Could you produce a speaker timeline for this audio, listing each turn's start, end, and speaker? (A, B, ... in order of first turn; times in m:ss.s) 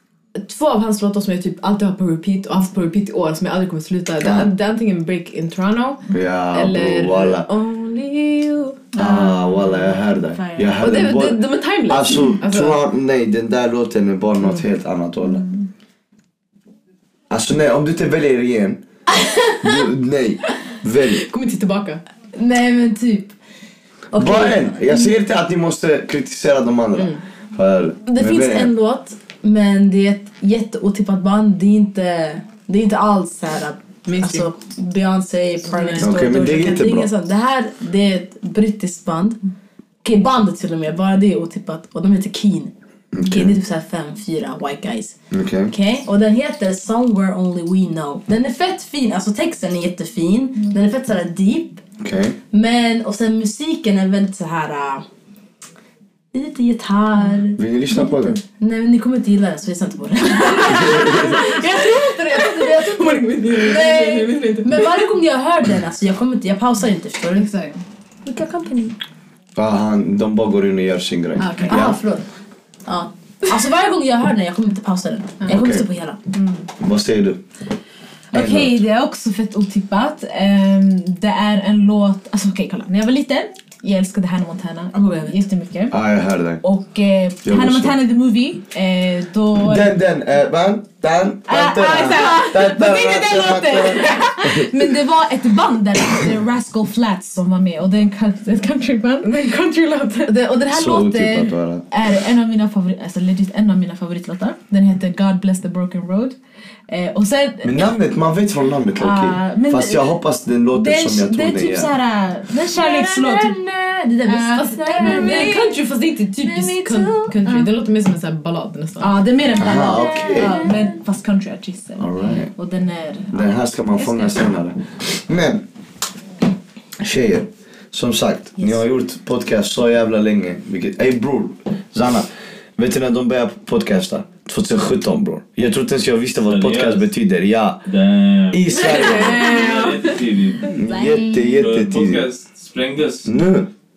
0:00.4-0:08.9 A
0:04.2-0:04.5 B
0:06.1-0:07.5 B
0:09.0-0:15.4 B
0:09.0-0:10.7 C
0:10.8-0:12.8 A
0:17.3-0:18.8 B
0:19.6-0:21.2 B
0:21.2-0:22.0 A
0:22.4-0:23.3 D
0:24.1-0:25.1 D
0:24.2-0:28.7 B
0:27.0-0:27.2 A
0:28.1-0:39.4 D
0:34.1-0:34.5 A
0:35.7-0:36.1 A
0:36.0-0:37.1 B
0:40.0-0:45.2 D
0:43.1-0:43.6 B
0:45.3-0:45.7 B
0:45.7-0:51.8 D
0:52.0-0:52.4 B
0:52.5-0:55.1 D
0:56.3-0:57.6 D
0:57.6-0:58.4 B
0:58.6-1:07.5 D
1:00.7-1:01.4 B
1:00.8-1:05.0 A
1:07.5-1:07.8 C
1:08.3-1:08.9 A
1:09.6-1:12.0 B
1:11.4-1:12.2 A
1:12.9-1:16.2 D
1:15.5-1:15.9 B
1:16.8-1:17.4 B
1:18.3-1:26.0 C
1:18.3-1:18.8 B
1:25.9-1:26.6 B
1:26.6-1:29.9 C
1:27.4-1:28.0 B
1:29.6-1:34.7 B
1:31.5-1:46.4 C
1:40.2-1:41.1 A
1:40.7-1:41.8 B
1:46.9-1:47.9 C
1:47.6-1:51.9 B
1:49.0-1:50.2 C
1:50.7-1:53.6 C
1:52.8-1:55.7 D
1:54.2-1:55.8 C
1:54.4-1:59.2 A
1:56.4-1:57.7 C
1:59.0-2:04.5 C
1:59.6-2:00.6 B
1:59.7-2:00.9 D
2:02.0-2:02.5 B
2:03.3-2:05.6 B
2:07.0-2:17.8 B
2:16.4-2:17.1 E
2:17.9-2:20.8 E
2:18.5-2:19.6 B
2:19.0-2:19.8 A
2:19.0-2:20.0 C
2:20.7-2:22.3 B
2:20.8-2:21.5 C
2:21.6-2:23.4 E
2:23.2-2:23.7 B